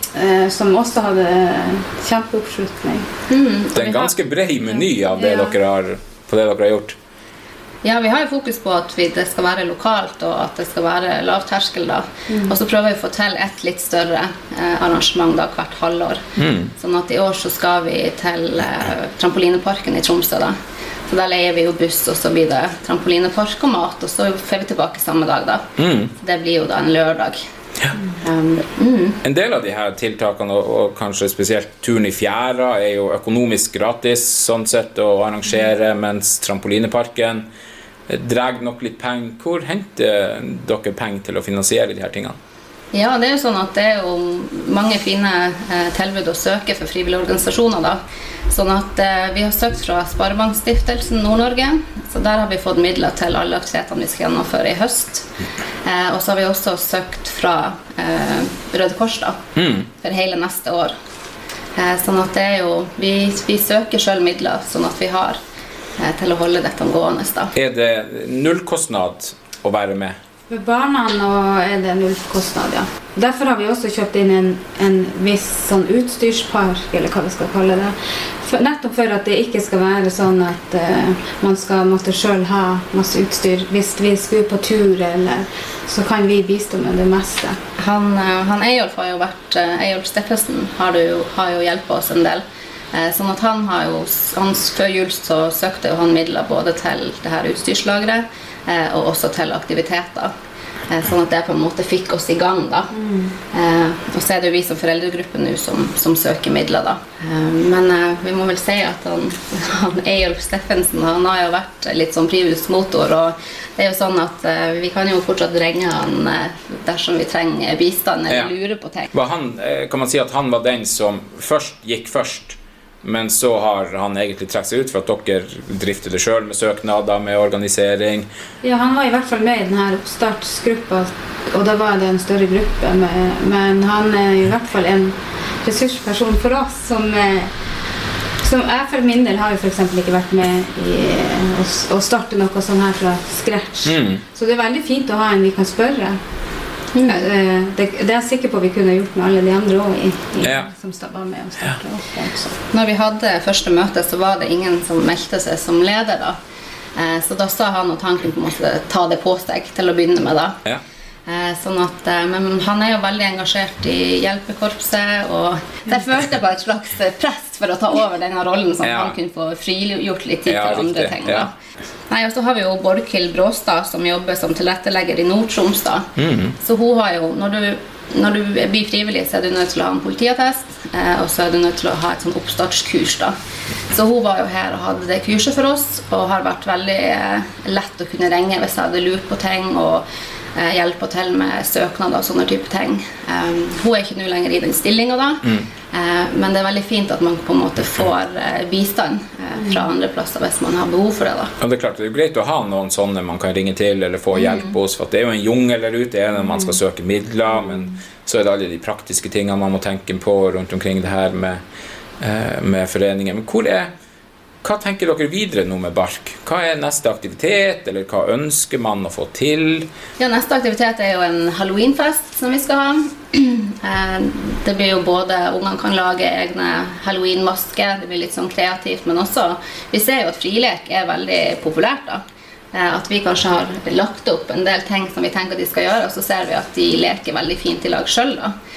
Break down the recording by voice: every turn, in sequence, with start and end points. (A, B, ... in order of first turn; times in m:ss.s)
0:00.1-0:03.1 A
0:03.3-0:04.1 B
0:03.7-0:07.0 C
0:05.1-0:05.6 A
0:07.8-0:16.2 B
0:12.3-0:12.5 A
0:16.4-0:16.7 C
0:16.8-0:20.6 B
0:21.1-0:25.6 B
0:25.8-0:26.1 C
0:26.2-0:27.4 B
0:28.2-0:29.2 B
0:29.2-0:37.4 C
0:38.1-0:42.3 C
0:42.9-0:55.2 B
0:55.8-0:59.4 B
0:59.6-0:59.9 C
1:00.0-1:00.9 B
1:01.8-1:05.4 B
1:06.0-1:07.5 B
1:07.5-1:10.2 C
1:10.5-1:27.6 A
1:27.8-1:40.3 B
1:40.9-1:42.9 B
1:42.9-1:43.4 A
1:43.5-1:59.1 B
1:59.1-2:08.3 C
2:08.6-2:17.5 A
2:18.4-2:26.2 A
2:23.8-2:24.2 C
2:26.9-2:27.3 B
2:27.0-2:32.5 A
2:30.4-2:30.7 C
2:32.7-2:36.4 B
2:36.9-2:40.6 B
2:41.2-2:51.5 B
2:48.8-2:49.1 C
2:50.5-2:51.5 C
2:52.1-2:56.1 B
2:56.2-2:56.5 C
2:56.6-3:03.3 B
3:03.9-3:10.0 B
3:10.5-3:21.5 B
3:21.6-3:31.6 C
3:24.3-3:24.7 B
3:32.2-3:33.9 C
3:34.6-3:39.9 C
3:40.2-3:58.5 B